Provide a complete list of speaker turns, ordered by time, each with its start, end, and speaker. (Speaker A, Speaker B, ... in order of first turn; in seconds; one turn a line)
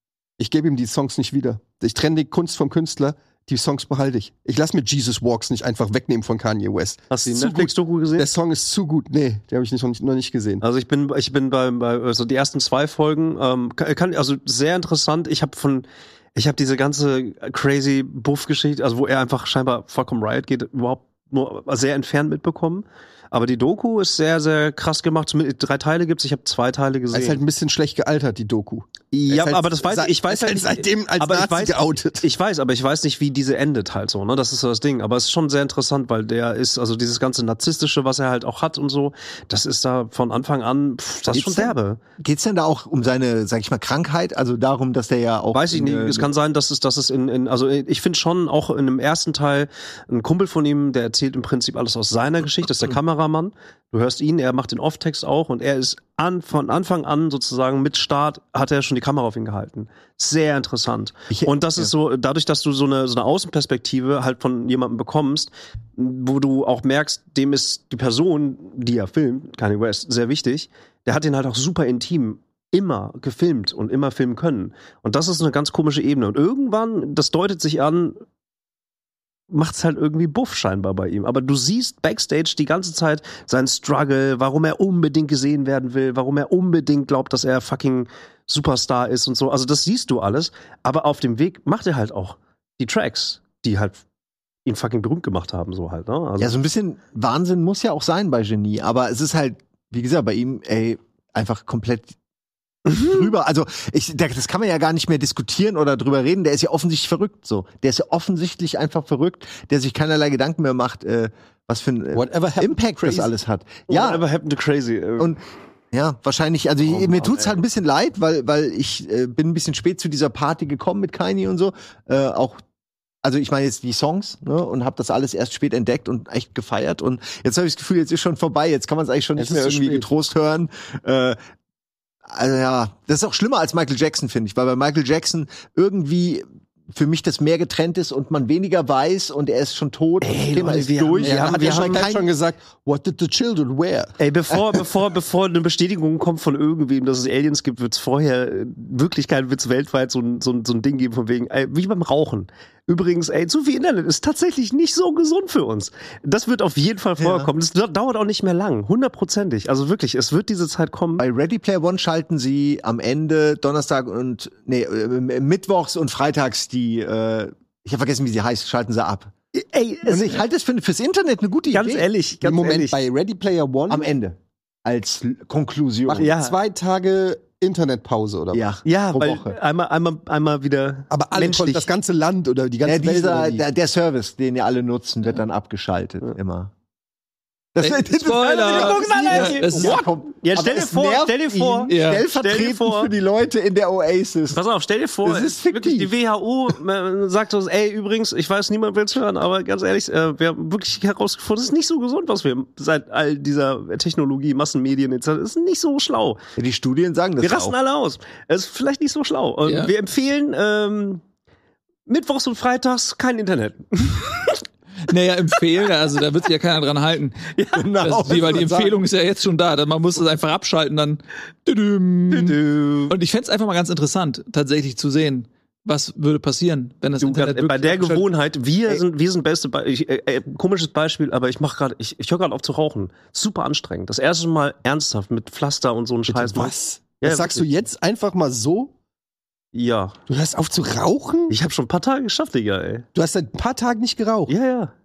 Speaker A: 0.4-10.6
Speaker B: 7.1-8.3
Speaker B: 10.6-27.4
Speaker A: 27.1-32.2
Speaker B: 29.3-42.0
Speaker C: 41.3-46.3
Speaker B: 45.5-78.2
Speaker C: 61.3-61.9
Speaker B: 79.5-94.0
Speaker B: 94.7-96.5
Speaker C: 96.4-102.2
Speaker C: 102.9-114.2
Speaker A: 112.1-113.3
Speaker B: 113.9-115.3
Speaker C: 115.9-122.6
Speaker B: 116.8-117.6
Speaker C: 123.2-131.4
Speaker A: 129.4-130.1
Speaker C: 132.3-142.3
Speaker B: 140.2-142.1
Speaker A: 141.2-144.1
Speaker B: 144.2-161.2
Speaker C: 157.2-157.5
Speaker C: 161.2-169.3
Speaker B: 169.5-170.4
Speaker C: 170.1-172.1
Speaker B: 171.7-172.9
Speaker A: 172.4-174.1
Speaker C: 173.9-176.3
Speaker B: 176.1-176.6
Speaker A: 176.1-178.6
Speaker C: 178.5-179.6
Speaker B: 178.8-181.9
Speaker A: 181.1-183.6
Speaker C: 182.8-186.7
Speaker C: 187.7-194.6
Speaker D: 187.8-190.0
Speaker B: 188.4-193.1
Speaker D: 191.9-192.2
Speaker B: 194.5-206.4
Speaker C: 195.2-196.1
Speaker C: 206.6-207.7
Speaker B: 207.4-211.2
Speaker D: 209.7-209.9
Speaker B: 212.1-214.6
Speaker D: 215.1-217.4
Speaker B: 217.6-217.8
Speaker C: 217.7-218.9
Speaker D: 218.0-222.6
Speaker B: 222.3-223.1
Speaker D: 223.1-228.2
Speaker B: 227.2-237.7
Speaker A: 236.3-238.9
Speaker B: 239.7-240.2
Speaker A: 240.3-241.6
Speaker B: 241.5-243.1
Speaker A: 243.1-244.5
Speaker B: 244.5-244.9